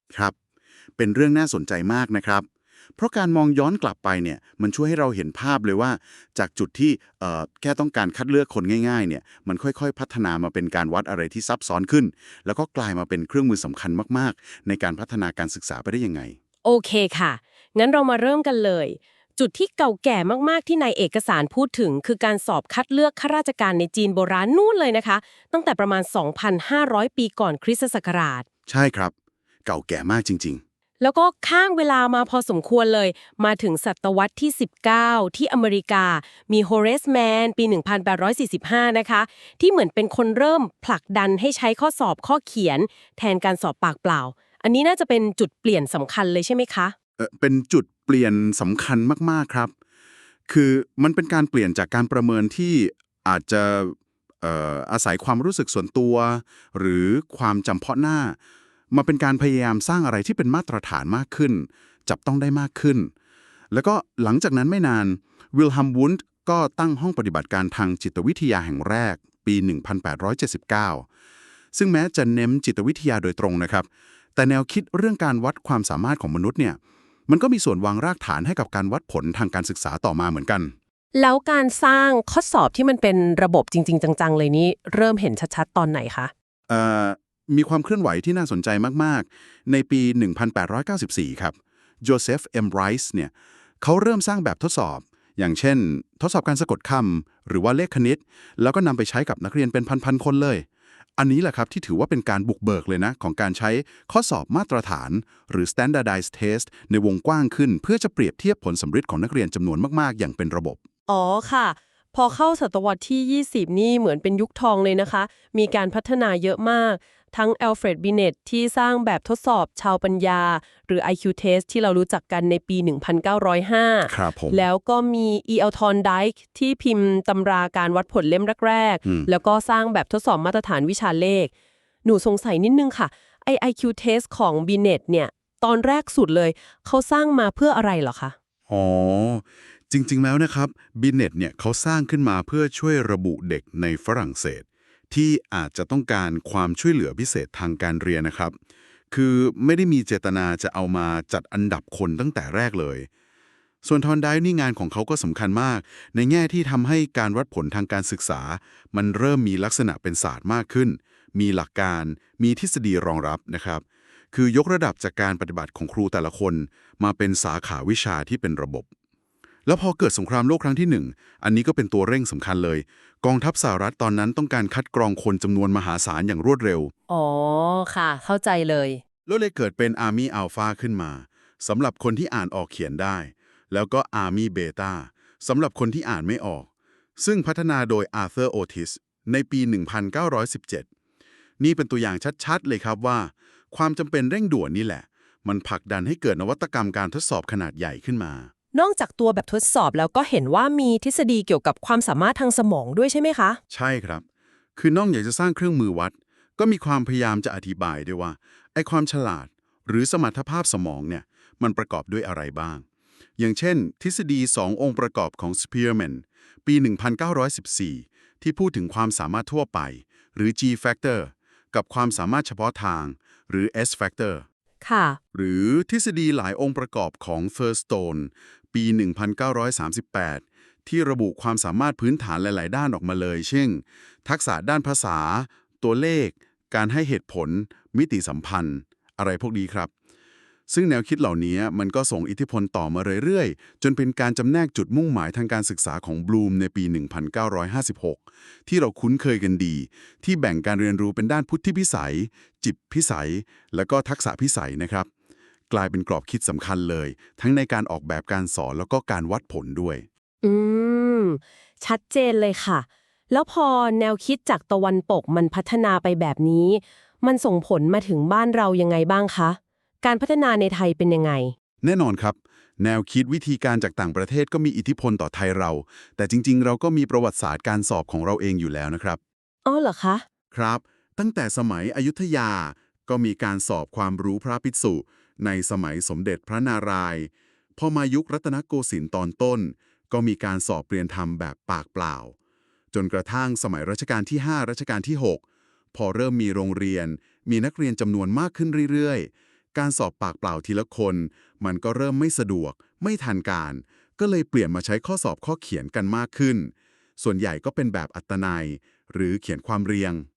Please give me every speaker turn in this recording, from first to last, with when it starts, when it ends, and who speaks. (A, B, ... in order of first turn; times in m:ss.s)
0:01.0-0:02.4 A
0:03.0-0:16.4 A
0:16.6-0:28.4 B
0:28.7-0:29.1 A
0:29.6-0:30.6 A
0:31.0-0:46.9 B
0:47.2-0:49.7 A
0:50.5-0:58.4 A
0:58.9-1:03.1 A
1:03.7-1:11.1 A
1:11.7-1:20.7 A
1:21.1-1:26.3 B
1:26.7-1:40.6 A
1:41.2-1:50.8 A
1:51.1-2:11.5 B
2:04.0-2:04.6 A
2:12.0-2:18.3 B
2:18.7-2:28.6 A
2:29.1-2:33.1 A
2:33.8-2:48.9 A
2:49.6-2:56.9 A
2:57.1-2:59.0 B
2:59.3-3:10.8 A
3:11.6-3:18.5 A
3:18.7-3:23.6 B
3:23.7-3:24.2 A
3:24.8-3:32.8 A
3:33.4-3:44.4 A
3:44.8-3:45.2 B
3:45.3-3:59.9 A
4:00.7-4:15.1 A
4:15.7-4:20.0 A
4:20.4-4:31.5 B
4:31.8-4:39.2 A
4:39.6-4:40.2 B
4:40.5-4:52.3 A
4:52.9-4:55.4 A
4:55.9-5:10.2 A